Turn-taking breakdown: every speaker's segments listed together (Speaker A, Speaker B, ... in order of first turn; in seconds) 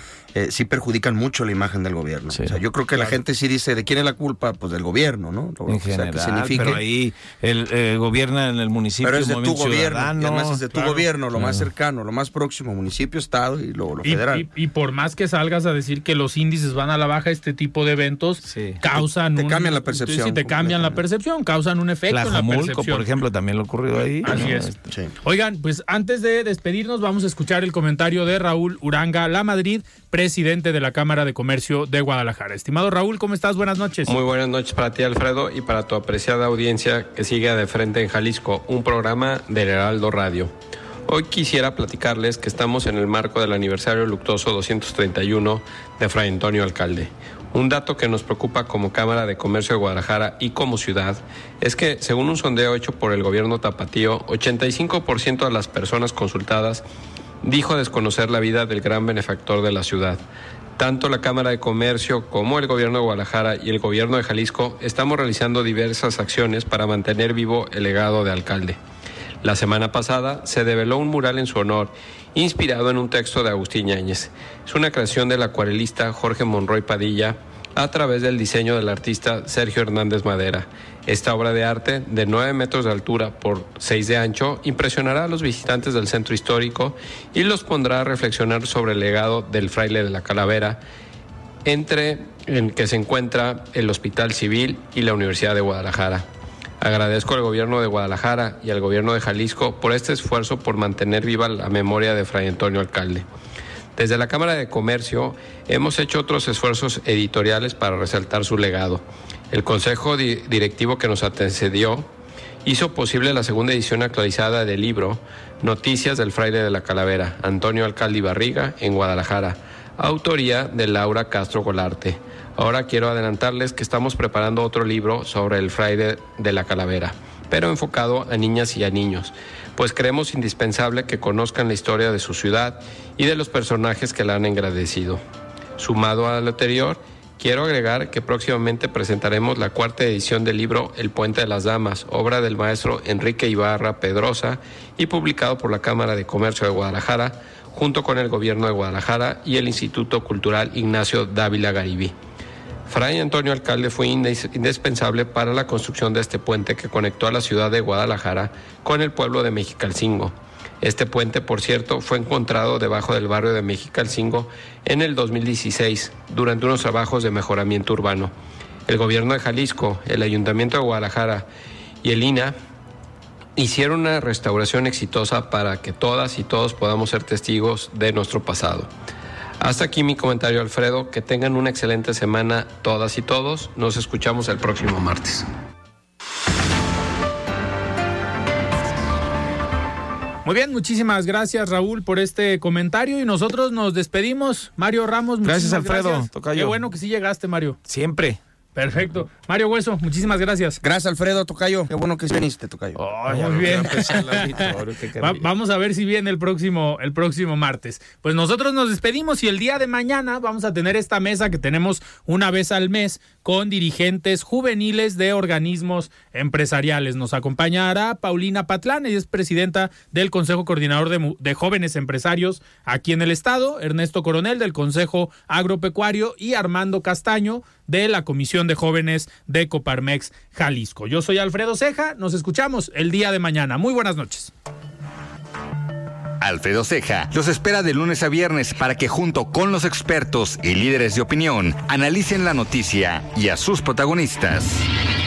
Speaker A: 0.3-6.8, 9.0-14.5, 18.9-21.0, 200.8-203.9
Speaker B: 5.7-11.7, 18.4-18.8, 22.1-24.8, 195.4-196.8, 197.9-198.4, 203.0-205.4
Speaker C: 14.0-23.1, 24.2-24.7, 25.2-34.2, 190.4-197.8, 198.8-200.8, 203.1-234.5
Speaker D: 34.1-40.5, 41.1-56.8, 57.4-60.2, 60.8-68.8, 69.4-90.8, 91.7-96.3, 96.8-103.3, 104.0-112.1, 112.7-135.2, 135.8-152.1, 152.9-168.3, 168.9-171.5, 172.0-172.6, 173.6-178.9, 179.6-185.4
Speaker E: 236.4-244.9